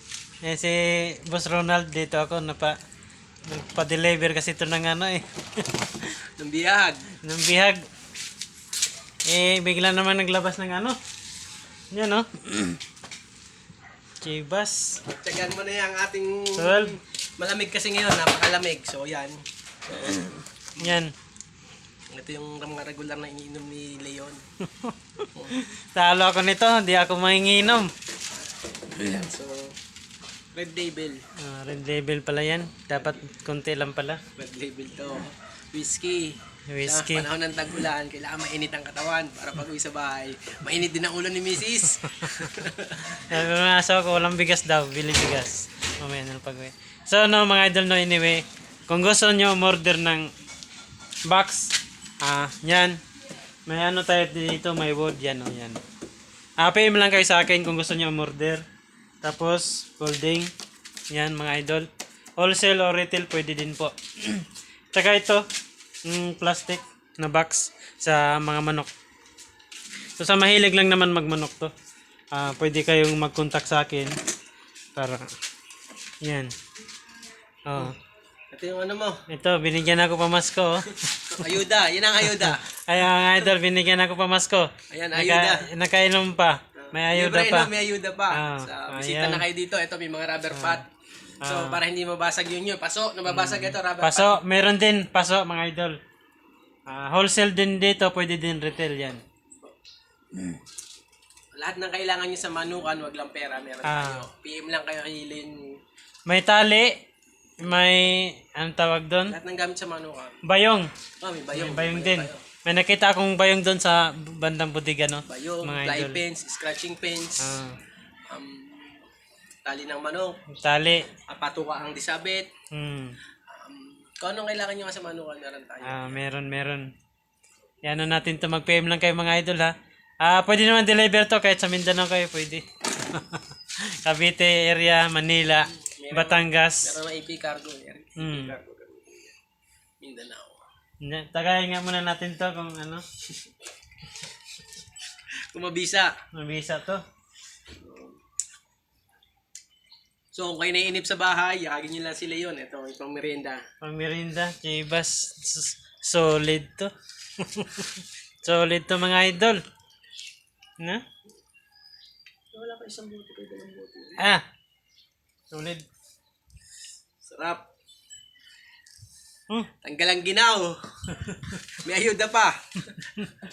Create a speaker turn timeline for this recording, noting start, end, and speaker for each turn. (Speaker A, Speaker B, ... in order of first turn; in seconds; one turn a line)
Speaker A: 0.4-2.8
Speaker A: 3.4-6.0
Speaker B: 6.4-7.1
Speaker A: 7.2-7.8
Speaker A: 9.2-11.0
Speaker A: 11.9-12.8
Speaker A: 14.2-15.0
Speaker B: 15.1-19.4
Speaker A: 16.6-16.9
Speaker B: 20.0-21.0
Speaker A: 20.8-21.1
Speaker B: 22.1-24.4
Speaker A: 25.5-27.9
Speaker B: 28.8-29.7
Speaker B: 30.5-31.2
Speaker A: 31.4-34.2
Speaker B: 34.4-43.3
Speaker A: 36.7-37.3
Speaker A: 43.1-50.3
Speaker A: 51.3-53.0
Speaker A: 53.7-55.8
Speaker A: 56.6-58.6
Speaker A: 59.2-60.5
Speaker A: 61.1-61.9
Speaker A: 62.4-65.5
Speaker A: 66.0-68.9
Speaker A: 70.2-71.7
Speaker A: 72.3-74.1
Speaker A: 75.0-75.3
Speaker A: 76.2-76.5
Speaker A: 77.7-77.9
Speaker B: 78.5-79.2
Speaker A: 79.3-81.5
Speaker B: 81.3-82.7
Speaker A: 82.3-87.7
Speaker B: 84.9-85.7
Speaker B: 86.8-90.8
Speaker A: 88.3-89.4
Speaker A: 90.5-90.8
Speaker A: 91.4-91.8
Speaker B: 91.4-94.4
Speaker A: 93.3-96.0
Speaker A: 96.9-99.2
Speaker B: 101.5-105.8
Speaker A: 103.8-104.2
Speaker A: 106.3-106.9
Speaker A: 107.6-109.3
Speaker B: 109.2-110.4
Speaker A: 110.4-110.9
Speaker B: 111.2-112.4
Speaker A: 111.5-116.2
Speaker B: 115.2-117.5
Speaker A: 117.4-117.8
Speaker B: 118.3-119.0
Speaker B: 119.6-120.4
Speaker A: 120.6-121.1
Speaker B: 121.3-122.5
Speaker A: 122.7-123.2
Speaker B: 123.5-126.2
Speaker A: 125.8-126.9
Speaker A: 127.8-136.9
Speaker B: 135.7-139.3
Speaker A: 138.2-138.5
Speaker B: 140.0-140.6
Speaker A: 141.0-143.0
Speaker B: 145.5-146.1
Speaker A: 146.3-147.0
Speaker B: 147.8-148.2
Speaker B: 150.3-153.6
Speaker A: 153.8-159.6
Speaker B: 162.5-164.3
Speaker A: 164.2-164.4
Speaker A: 165.5-165.8
Speaker B: 167.2-167.6
Speaker B: 169.8-172.6